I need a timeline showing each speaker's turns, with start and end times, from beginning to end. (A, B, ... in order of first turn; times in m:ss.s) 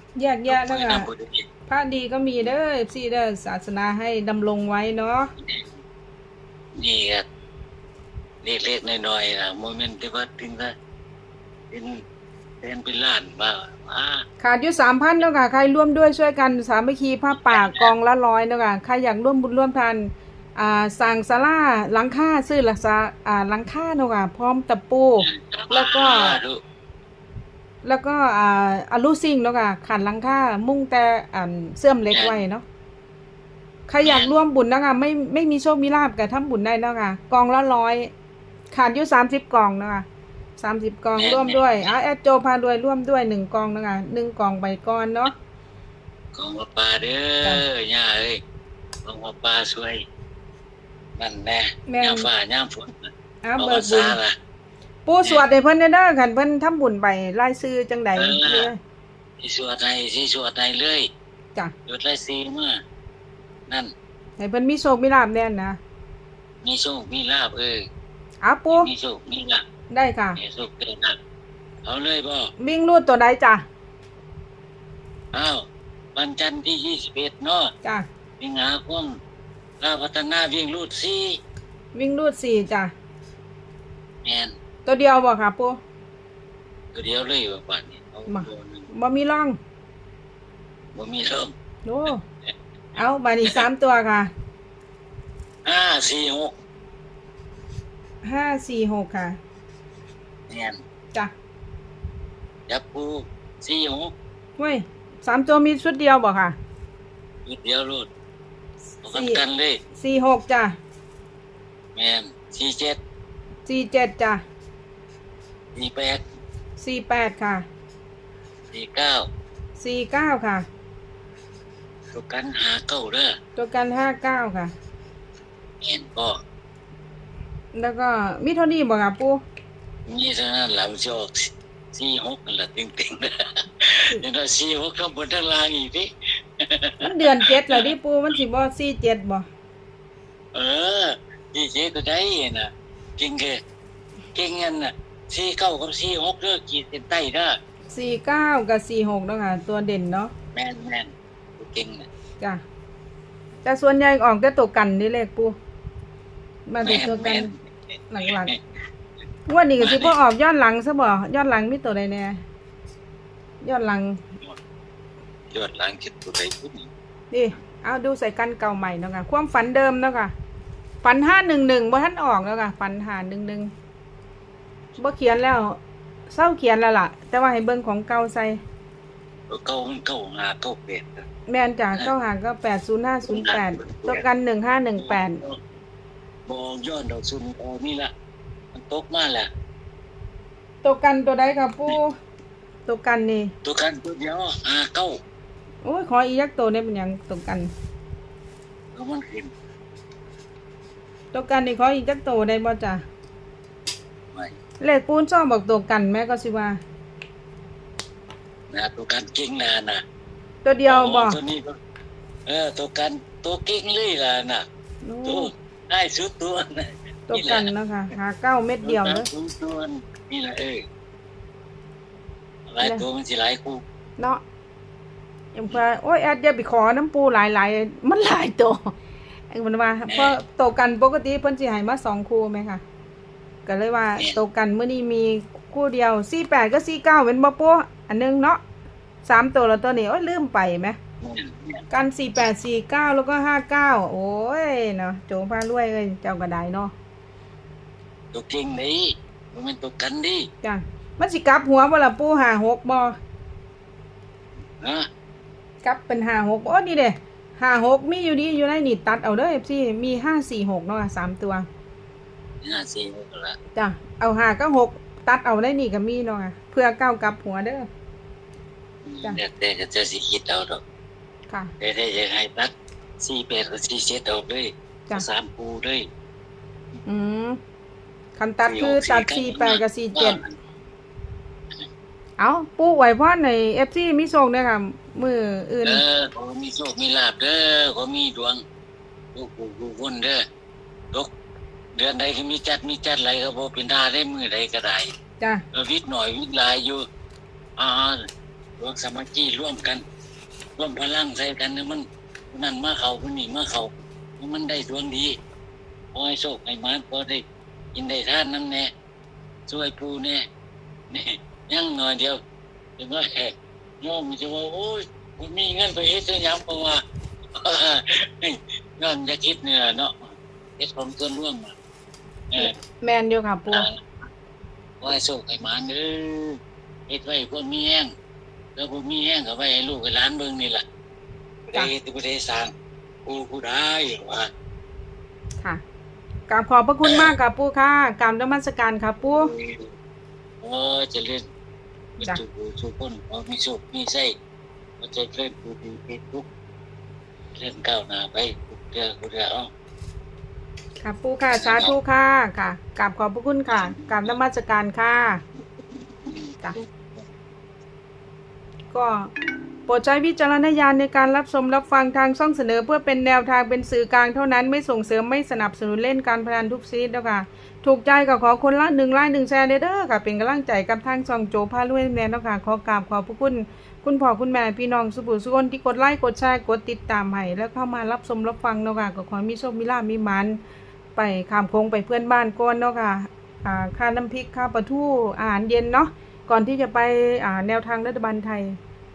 0:00.1-0:01.1 A
0:00.5-0:01.4 B
0:01.7-0:05.3 A
0:05.4-0:05.7 B
0:06.8-0:07.2 B
0:08.4-0:10.7 B
0:11.7-0:12.0 B
0:12.6-0:14.2 B
0:14.4-0:26.4 A
0:17.3-0:17.9 B
0:25.2-0:26.6 B
0:27.8-0:32.6 A
0:32.1-0:32.4 B
0:33.9-0:38.1 A
0:34.0-0:34.3 B
0:38.7-0:40.0 A
0:40.6-0:45.3 A
0:41.1-0:41.9 B
0:46.3-0:48.4 B
0:49.0-0:50.0 B
0:51.2-0:54.4 B
0:51.9-0:52.3 A
0:53.4-0:54.2 A
0:55.0-0:58.8 A
0:58.1-0:58.7 B
0:59.4-1:01.1 B
1:01.9-1:02.8 B
1:04.4-1:05.8 A
1:06.6-1:07.8 B
1:08.4-1:08.9 A
1:08.7-1:09.6 B
1:09.9-1:10.4 A
1:10.4-1:11.2 B
1:11.8-1:12.5 B
1:12.6-1:13.6 A
1:15.3-1:17.7 B
1:18.4-1:19.2 B
1:19.8-1:21.4 B
1:21.9-1:22.9 A
1:24.2-1:24.5 B
1:24.8-1:25.8 A
1:26.9-1:28.9 B
1:28.3-1:29.6 A
1:30.9-1:31.5 B
1:31.8-1:32.2 A
1:33.0-1:34.3 A
1:35.6-1:36.5 B
1:38.2-1:39.4 A
1:40.5-1:40.8 B
1:42.7-1:44.1 B
1:44.6-1:46.5 A
1:47.4-1:48.1 B
1:49.0-1:49.8 B
1:49.0-1:49.4 A
1:49.9-1:50.8 A
1:51.9-1:53.0 B
1:53.6-1:54.4 A
1:55.7-1:56.2 B
1:56.8-1:57.6 A
1:58.7-1:59.3 B
1:59.8-2:00.6 A
2:02.1-2:03.4 B
2:03.6-2:04.7 A
2:05.8-2:06.4 B
2:07.7-2:09.4 A
2:10.1-2:17.9 B
2:17.0-2:19.5 A
2:20.5-2:23.6 B
2:24.3-2:27.6 B
2:27.9-2:30.3 A
2:30.5-2:32.1 B
2:33.6-2:35.6 A
2:36.7-2:37.5 A
2:36.8-2:37.5 B
2:38.1-2:38.5 A
2:38.2-2:38.6 B
2:39.4-2:42.4 A
2:39.8-2:40.2 B
2:43.6-2:44.2 A
2:45.5-2:46.9 B
2:47.3-2:50.3 A
2:51.0-2:53.7 A
2:55.0-2:58.6 A
2:59.5-3:01.2 B
3:01.5-3:05.4 A
3:03.2-3:04.2 B
3:05.0-3:05.6 B
3:06.5-3:08.1 B
3:08.7-3:09.5 B
3:10.8-3:12.1 A
3:12.9-3:13.5 A
3:13.6-3:15.2 B
3:15.8-3:17.7 A
3:18.9-3:19.5 B
3:21.3-3:23.0 A
3:24.8-3:26.8 A
3:28.7-3:30.0 B
3:30.6-3:31.4 A
3:30.8-3:31.7 B
3:32.4-3:34.6 B
3:35.0-3:35.5 A
3:35.2-3:37.7 B
3:37.3-3:39.3 A
3:38.8-3:40.8 B
3:42.7-3:43.8 B
3:45.5-3:49.0 A
3:49.5-3:52.8 A
3:50.1-3:50.4 B
3:53.6-3:58.6 A
3:59.2-4:01.0 A
4:01.2-4:01.8 B
4:01.9-4:06.9 A
4:08.3-4:10.5 B
4:10.6-4:13.2 A
4:14.8-4:15.1 B
4:15.8-4:21.7 A
4:22.6-4:23.6 B
4:23.7-4:27.8 A
4:29.0-4:30.8 B
4:31.8-4:36.1 B
4:37.0-4:37.6 A
4:38.4-4:40.4 A
4:38.6-4:40.5 B
4:42.4-4:46.0 A
4:45.8-4:48.6 B
4:49.3-4:50.4 B
4:51.9-4:55.1 B
4:55.7-4:57.0 B
4:57.8-4:58.3 B
4:58.8-5:00.0 B
5:00.8-5:05.4 B
5:06.1-5:07.4 B
5:07.9-5:08.9 B
5:09.7-5:10.4 B
5:11.1-5:12.4 B
5:13.0-5:17.0 B
5:17.6-5:21.7 B
5:22.6-5:23.9 A
5:23.7-5:24.0 B
5:25.0-5:28.1 B
5:28.8-5:30.8 B
5:31.7-5:32.7 B
5:33.2-5:34.5 B
5:36.5-5:39.5 A
5:37.0-5:37.3 B
5:39.2-5:39.9 B
5:40.6-5:41.4 B
5:42.2-5:44.3 B
5:45.0-5:46.4 B
5:47.6-5:49.7 B
5:51.0-5:55.4 A
5:51.5-5:51.9 B
5:53.7-5:54.4 B
5:56.2-5:57.2 B
5:58.9-5:59.3 A
5:59.9-6:20.6 A
6:21.1-6:28.8 A